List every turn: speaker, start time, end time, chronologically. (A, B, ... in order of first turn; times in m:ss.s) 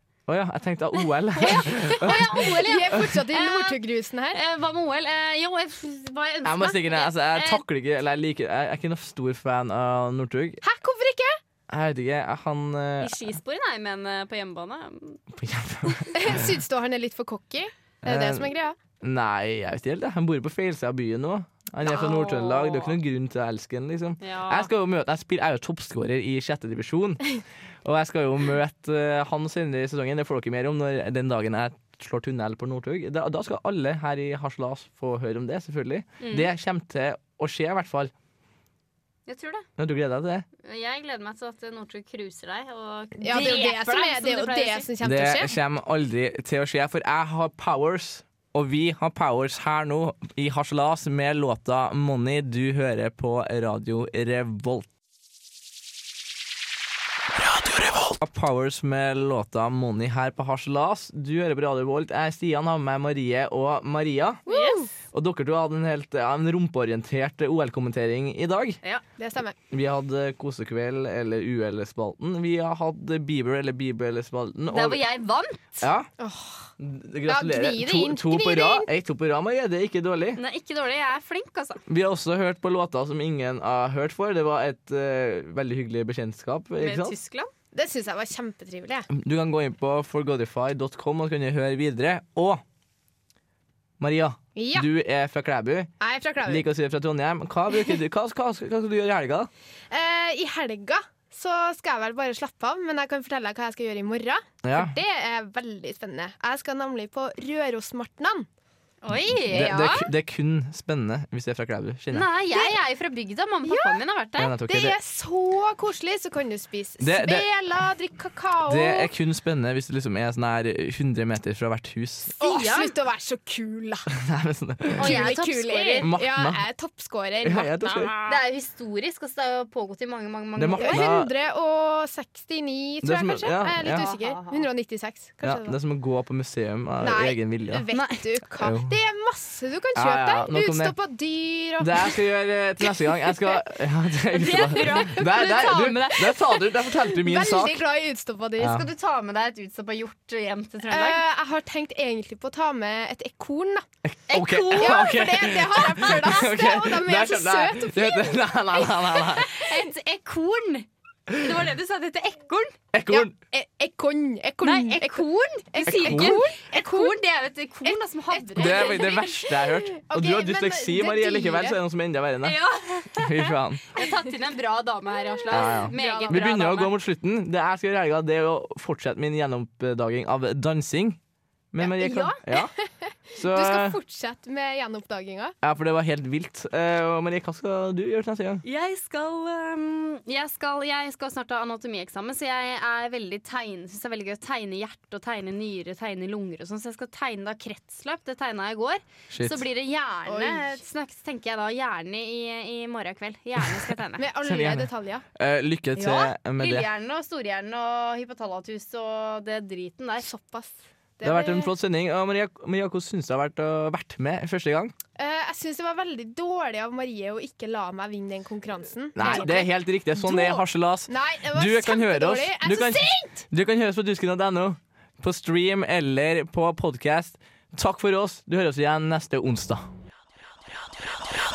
0:00.3-0:02.4 A
0:01.3-0:03.8 B
0:01.5-0:04.4 C
0:04.3-0:07.6 B
0:06.4-0:10.6 A
0:10.6-0:11.4 C
0:11.7-0:13.2 A
0:13.0-0:15.2 B
0:15.3-0:16.6 A
0:16.2-0:18.8 C
0:18.0-0:18.5 A
0:19.0-0:27.2 A
0:21.8-0:23.0 B
0:24.2-0:24.7 B
0:27.8-0:38.1 A
0:36.2-0:36.5 B
0:39.3-0:39.6 B
0:39.8-0:40.5 A
0:40.6-0:44.9 B
0:43.2-0:45.5 C
0:45.0-0:54.9 A
0:57.6-1:04.4 A
1:04.5-1:04.9 C
1:04.5-1:04.8 B
1:05.1-1:08.8 A
1:09.2-1:09.6 C
1:09.7-1:15.1 A
1:14.7-1:15.9 B
1:15.8-1:16.1 A
1:16.2-1:16.7 C
1:16.8-1:20.4 A
1:17.2-1:18.9 C
1:20.4-1:21.8 B
1:21.9-1:27.2 A
1:26.8-1:27.5 B
1:27.7-1:29.1 C
1:29.1-1:32.6 A
1:34.0-1:35.9 A
1:34.6-1:34.9 C
1:36.0-1:36.6 C
1:36.5-1:39.5 A
1:39.9-1:48.5 C
1:44.6-1:45.0 A
1:49.0-1:50.1 B
1:49.1-1:52.3 A
1:52.1-1:54.6 B
1:52.5-1:52.8 C
1:53.6-1:54.0 C
1:54.4-1:55.0 A
1:54.6-1:59.1 C
1:57.0-1:57.5 A
1:58.7-2:02.3 A
2:02.4-2:04.1 C
2:02.4-2:02.9 B
2:04.2-2:05.4 A
2:04.9-2:08.4 C
2:05.0-2:06.1 B
2:06.0-2:06.7 A
2:07.4-2:08.2 A
2:07.8-2:11.1 B
2:10.6-2:11.3 A
2:10.8-2:15.8 C
2:13.0-2:14.1 A
2:13.8-2:14.7 B
2:15.4-2:17.9 A
2:17.0-2:22.1 C
2:17.9-2:18.2 B
2:18.6-2:18.9 A
2:20.0-2:21.0 A
2:21.8-2:27.9 A
2:24.3-2:26.4 B
2:24.9-2:28.9 C
2:28.6-2:28.9 A
2:28.6-2:31.2 B
2:30.9-2:33.9 C
2:34.0-2:39.5 A
2:34.3-2:35.3 B
2:34.7-2:39.5 C
2:39.5-2:42.8 B
2:41.3-2:41.6 A
2:42.9-2:43.3 A
2:43.1-2:47.2 C
2:44.6-2:49.3 B
2:45.8-2:46.4 A
2:47.8-2:51.8 C
2:48.6-2:52.6 A
2:52.4-2:57.0 B
2:53.1-2:53.9 A
2:55.5-2:56.5 C
2:55.5-3:01.2 A
3:01.7-3:02.7 A
3:01.8-3:02.4 B
3:02.5-3:05.6 C
3:03.4-3:04.0 A
3:05.6-3:08.6 A
3:08.6-3:24.2 B
3:19.3-3:19.6 A
3:20.3-3:20.8 C
3:24.2-3:25.2 C
3:24.4-3:26.9 A
3:26.0-3:26.3 C
3:26.6-3:30.3 B
3:30.2-3:31.7 C
3:31.2-3:34.9 A
3:35.2-3:43.4 C
3:39.2-3:49.8 A
3:39.2-3:39.6 B